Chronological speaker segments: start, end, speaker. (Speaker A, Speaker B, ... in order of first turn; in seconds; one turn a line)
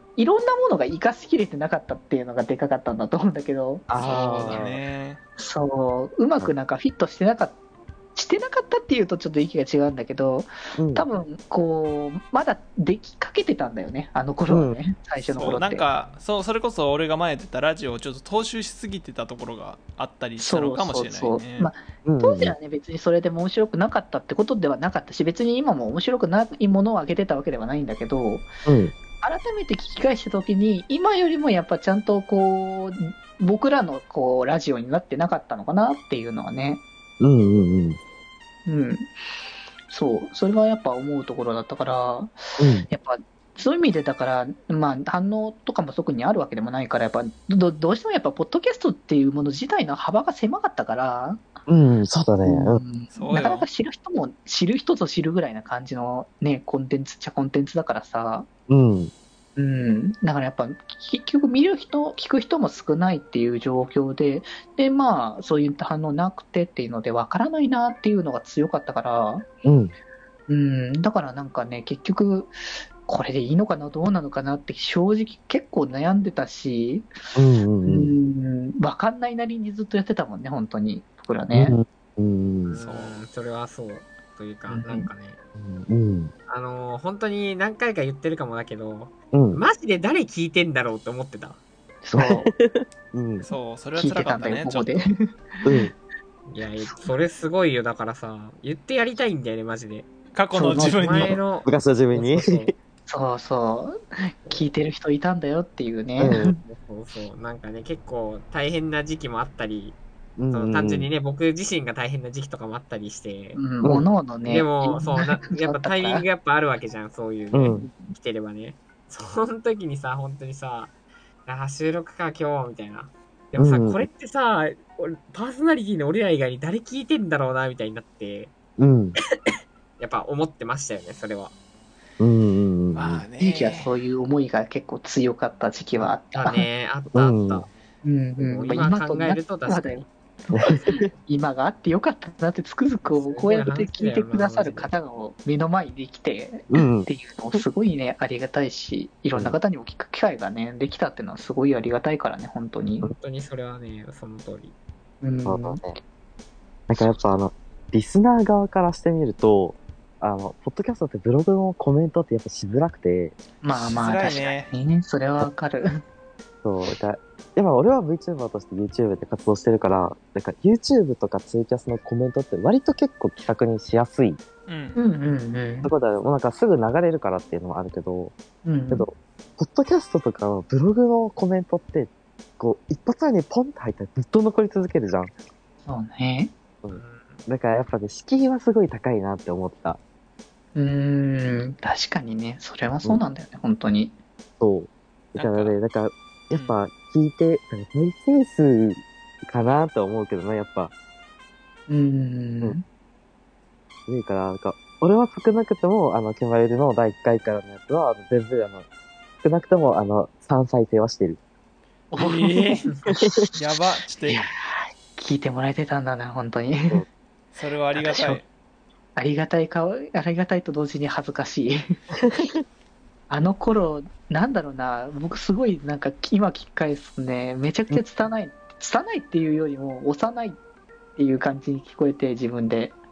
Speaker A: 0.1-4.6
Speaker B: 3.9-4.8
Speaker C: 4.0-4.6
Speaker D: 4.0-5.2
Speaker A: 5.4-7.6
Speaker A: 8.1-15.8
Speaker B: 10.8-11.1
Speaker B: 14.5-14.8
Speaker D: 15.3-21.7
Speaker A: 20.4-28.5
Speaker B: 22.1-22.5
Speaker B: 28.6-28.9
Speaker A: 29.2-36.8
Speaker B: 37.2-38.0
Speaker A: 38.6-39.1
Speaker A: 39.9-51.5
Speaker B: 42.6-42.9
Speaker B: 51.7-52.8
Speaker A: 52.4-58.5
Speaker D: 53.1-53.7
Speaker B: 58.7-59.1
Speaker A: 59.5-69.4
Speaker B: 69.6-69.9
Speaker A: 70.5-77.1
Speaker B: 77.3-78.2
Speaker A: 77.8-81.8
Speaker B: 81.5-82.8
Speaker C: 82.7-85.4
Speaker D: 82.8-83.2
Speaker A: 84.7-85.0
Speaker B: 85.6-86.3
Speaker C: 86.5-91.6
Speaker B: 89.3-89.6
Speaker A: 92.0-92.5
Speaker B: 92.2-93.5
Speaker D: 93.4-95.1
Speaker A: 93.9-95.8
Speaker B: 95.6-95.9
Speaker C: 96.5-100.1
Speaker D: 100.3-101.4
Speaker C: 100.6-102.7
Speaker B: 101.6-102.7
Speaker A: 103.1-106.6
Speaker C: 104.5-104.7
Speaker B: 106.2-106.5
Speaker C: 106.6-110.0
Speaker B: 110.4-111.1
Speaker C: 110.5-113.6
Speaker A: 113.5-116.2
Speaker C: 114.4-120.9
Speaker B: 117.5-117.9
Speaker C: 121.4-128.5
Speaker B: 123.6-124.1
Speaker B: 128.8-129.2
Speaker C: 130.0-131.5
Speaker B: 132.2-133.2
Speaker D: 132.9-133.9
Speaker A: 133.4-136.7
Speaker C: 136.3-137.7
Speaker B: 137.1-137.7
Speaker A: 138.0-153.1
Speaker C: 138.4-140.1
Speaker B: 140.5-141.1
Speaker C: 143.1-144.9
Speaker B: 146.7-147.6
Speaker C: 153.1-154.8
Speaker A: 155.2-155.8
Speaker B: 155.4-156.0
Speaker B: 156.9-163.4
Speaker A: 163.6-165.9
Speaker D: 163.7-164.7
Speaker B: 166.6-174.4
Speaker D: 174.7-175.0
Speaker A: 174.9-175.9
Speaker B: 175.8-178.3
Speaker A: 178.6-179.1
Speaker B: 178.9-185.3
Speaker A: 185.8-186.5
Speaker B: 186.8-190.0
Speaker C: 186.9-187.4
Speaker A: 190.7-194.1
Speaker B: 194.6-200.9
Speaker D: 195.4-195.7
Speaker A: 201.9-202.8
Speaker B: 204.1-208.8
Speaker B: 209.4-211.4
Speaker A: 212.1-212.8
Speaker D: 212.1-214.5
Speaker A: 214.2-217.0
Speaker D: 217.5-218.4
Speaker A: 217.9-218.4
Speaker A: 219.2-221.8
Speaker B: 222.2-222.6
Speaker A: 223.3-230.6
Speaker A: 231.2-233.0